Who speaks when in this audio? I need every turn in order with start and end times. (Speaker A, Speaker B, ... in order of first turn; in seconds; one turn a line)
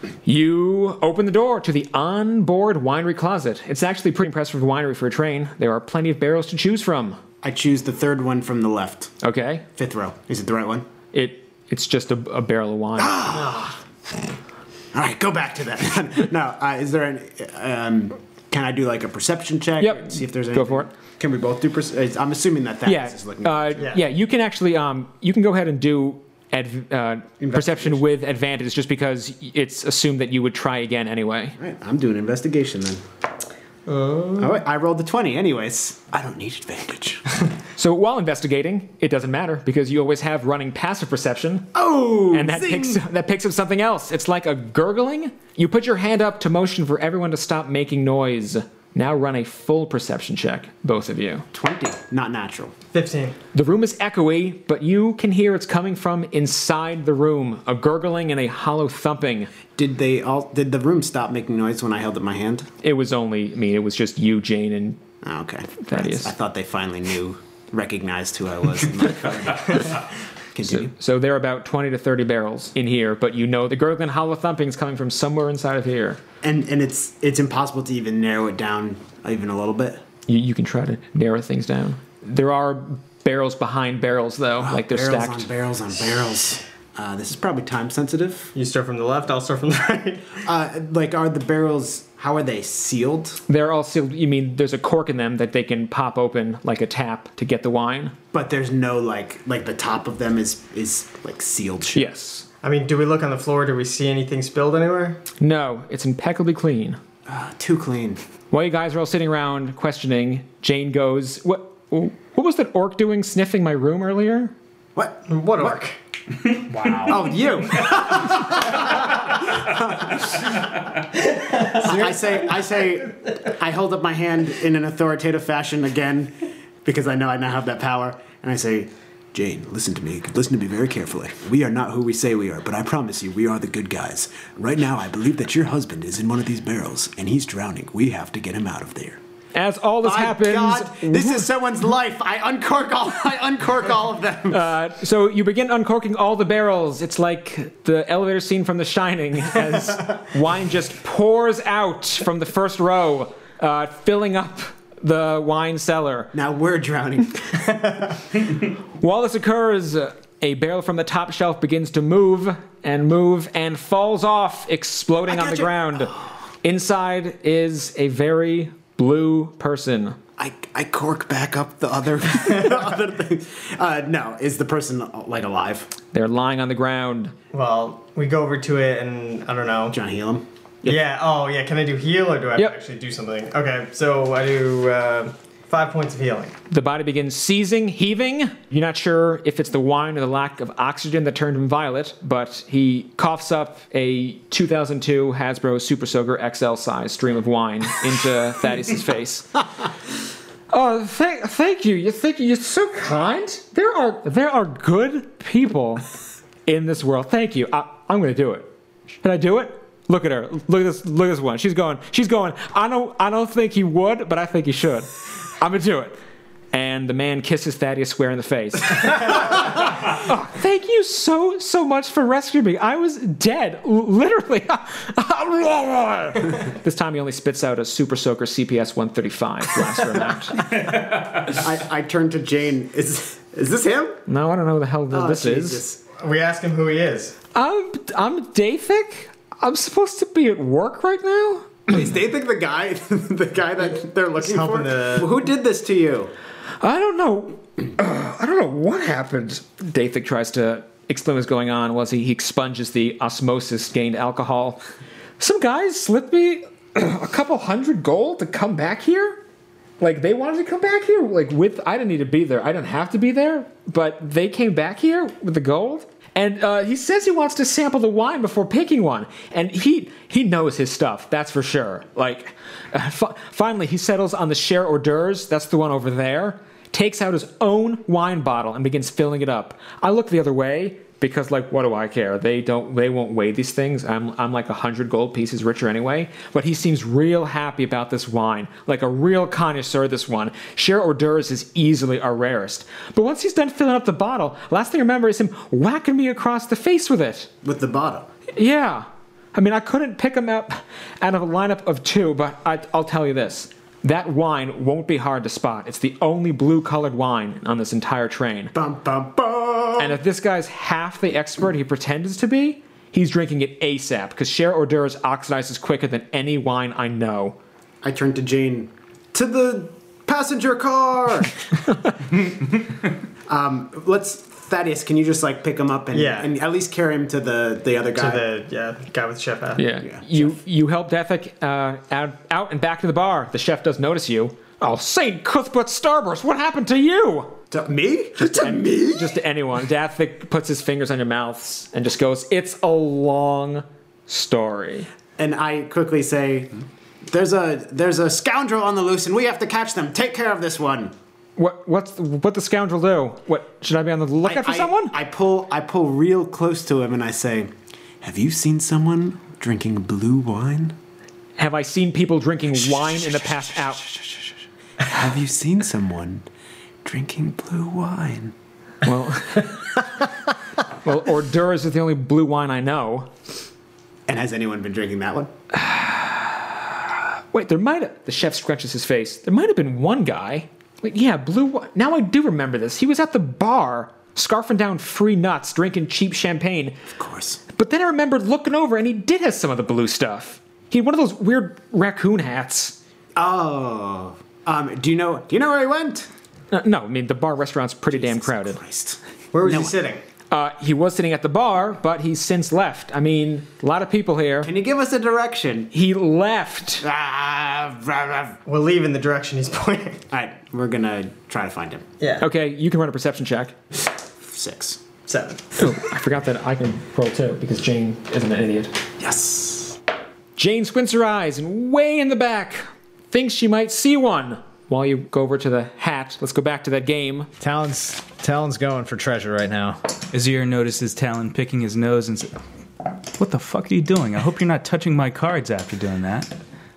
Speaker A: 0.2-7.2
Speaker B: 7.4-9.1
Speaker A: 9.2-9.7
Speaker B: 9.8-10.9
Speaker A: 11.1-13.5
Speaker B: 13.0-13.6
Speaker B: 14.9-23.9
Speaker A: 19.8-20.9
Speaker A: 22.9-31.6
Speaker B: 27.4-28.0
Speaker B: 31.6-33.0
Speaker C: 33.9-34.5
Speaker B: 34.4-37.4
Speaker A: 37.8-41.7
Speaker B: 41.7-43.0
Speaker A: 42.3-51.5
Speaker B: 51.5-52.7
Speaker C: 52.9-53.4
Speaker A: 53.5-59.5
Speaker B: 59.8-62.7
Speaker A: 62.8-65.0
Speaker B: 65.2-70.9
Speaker A: 65.8-66.3
Speaker A: 70.6-76.2
Speaker B: 76.4-80.0
Speaker A: 80.3-85.5
Speaker B: 84.6-88.5
Speaker C: 88.5-90.4
Speaker B: 90.4-93.4
Speaker A: 93.5-98.2
Speaker B: 98.3-102.1
Speaker A: 101.9-102.5
Speaker C: 102.6-105.2
Speaker A: 105.4-107.0
Speaker B: 107.3-108.2
Speaker A: 108.5-114.5
Speaker B: 115.0-115.8
Speaker C: 115.3-116.0
Speaker B: 116.7-120.2
Speaker C: 121.3-122.2
Speaker B: 121.6-139.2
Speaker A: 139.5-141.5
Speaker B: 140.0-144.6
Speaker A: 144.5-156.3
Speaker B: 156.3-158.0
Speaker A: 159.0-170.2
Speaker B: 165.3-165.7
Speaker B: 170.4-175.9
Speaker A: 176.1-177.3
Speaker C: 177.5-180.0
Speaker B: 179.9-180.4
Speaker C: 180.8-186.6
Speaker A: 186.7-199.6
Speaker A: 200.7-206.1
Speaker A: 206.7-208.7
Speaker A: 209.2-216.2
Speaker A: 216.7-230.8
Speaker B: 230.9-234.2
Speaker A: 234.3-235.8
Speaker B: 235.1-236.0
Speaker C: 236.1-237.4
Speaker A: 237.6-241.9
Speaker B: 241.9-246.3
Speaker C: 244.4-245.3
Speaker A: 246.8-254.8
Speaker A: 255.4-259.4
Speaker A: 260.0-297.5
Speaker B: 297.6-298.3
Speaker A: 298.6-308.7
Speaker B: 308.7-310.2
Speaker A: 310.0-317.6
Speaker B: 318.0-321.6
Speaker B: 323.5-328.5
Speaker C: 326.1-326.5
Speaker C: 328.1-329.9
Speaker A: 329.8-337.6
Speaker B: 330.0-330.5
Speaker B: 337.7-339.3
Speaker A: 338.4-345.1
Speaker B: 345.4-351.1
Speaker A: 351.6-355.1
Speaker B: 354.4-360.9
Speaker A: 361.6-364.1
Speaker B: 363.2-364.4
Speaker B: 365.0-366.4
Speaker B: 367.0-368.5
Speaker A: 369.0-370.0
Speaker A: 371.0-373.3
Speaker B: 374.3-375.5
Speaker A: 375.7-376.8
Speaker A: 377.5-387.0
Speaker B: 387.1-387.6
Speaker A: 387.7-393.0
Speaker B: 393.4-396.3
Speaker A: 396.7-398.8
Speaker B: 398.1-399.9
Speaker C: 399.5-400.2
Speaker A: 400.5-404.7
Speaker B: 404.6-405.9
Speaker A: 405.9-407.1
Speaker B: 407.0-408.6
Speaker C: 408.7-410.2
Speaker B: 410.3-412.1
Speaker C: 412.2-412.5
Speaker A: 412.4-413.8
Speaker B: 414.5-415.1
Speaker C: 415.3-415.7
Speaker A: 415.8-418.9
Speaker B: 419.2-420.0
Speaker A: 420.6-427.5
Speaker D: 427.6-430.0
Speaker E: 430.3-432.6
Speaker E: 433.4-436.5